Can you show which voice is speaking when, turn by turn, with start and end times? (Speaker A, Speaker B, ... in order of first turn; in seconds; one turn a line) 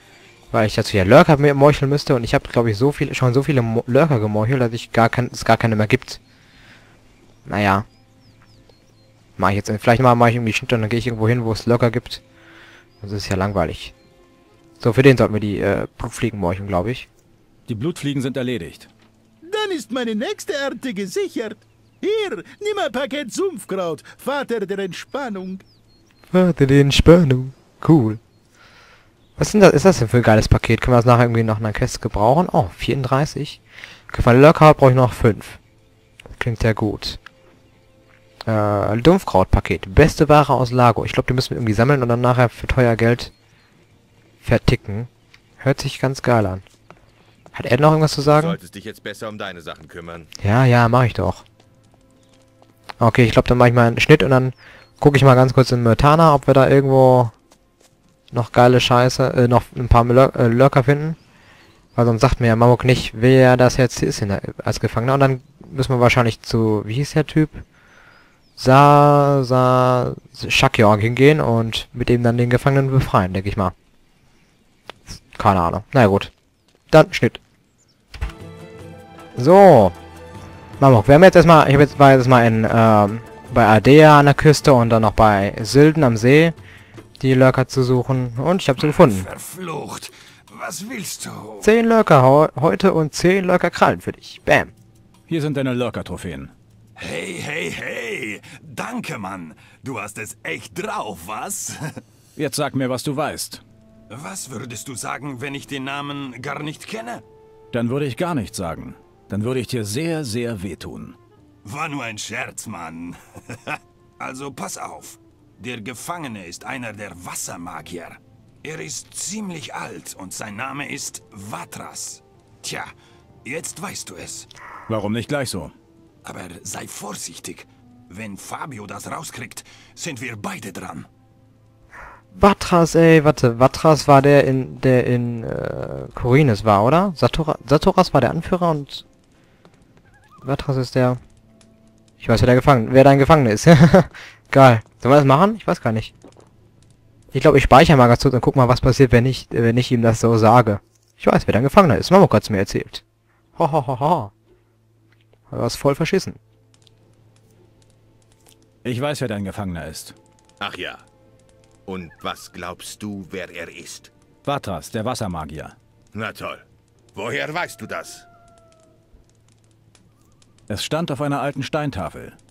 Speaker A: 0.5-6.2
Speaker A: 7.5-7.8
Speaker A: 9.4-12.2
Speaker A: 13.0-13.9
Speaker A: 14.8-17.1
Speaker B: 17.7-18.9
Speaker C: 19.5-25.6
Speaker A: 26.3-28.2
Speaker A: 29.4-35.6
Speaker A: 36.3-37.2
Speaker A: 38.5-43.3
Speaker A: 44.4-46.6
Speaker A: 47.5-48.6
Speaker D: 48.3-50.3
Speaker A: 50.4-51.4
Speaker A: 53.0-57.3
Speaker A: 58.3-61.2
Speaker A: 61.9-67.6
Speaker A: 68.6-73.7
Speaker A: 75.3-76.3
Speaker A: 76.9-77.4
Speaker A: 79.3-80.0
Speaker A: 80.8-86.5
Speaker A: 87.2-89.3
Speaker E: 88.8-91.7
Speaker A: 91.6-94.7
Speaker B: 95.3-96.5
Speaker E: 97.0-101.8
Speaker B: 102.3-103.6
Speaker E: 104.1-107.2
Speaker B: 107.7-111.2
Speaker E: 111.6-122.9
Speaker E: 123.4-124.5
Speaker B: 124.9-125.7
Speaker E: 126.2-131.1
Speaker A: 132.3-139.0
Speaker A: 140.4-141.2
Speaker A: 142.2-146.1
Speaker A: 147.3-153.0
Speaker A: 153.6-154.3
Speaker A: 155.5-156.4
Speaker B: 158.8-160.2
Speaker D: 160.6-161.0
Speaker D: 161.9-164.1
Speaker B: 164.4-165.8
Speaker D: 166.1-168.3
Speaker B: 170.7-172.4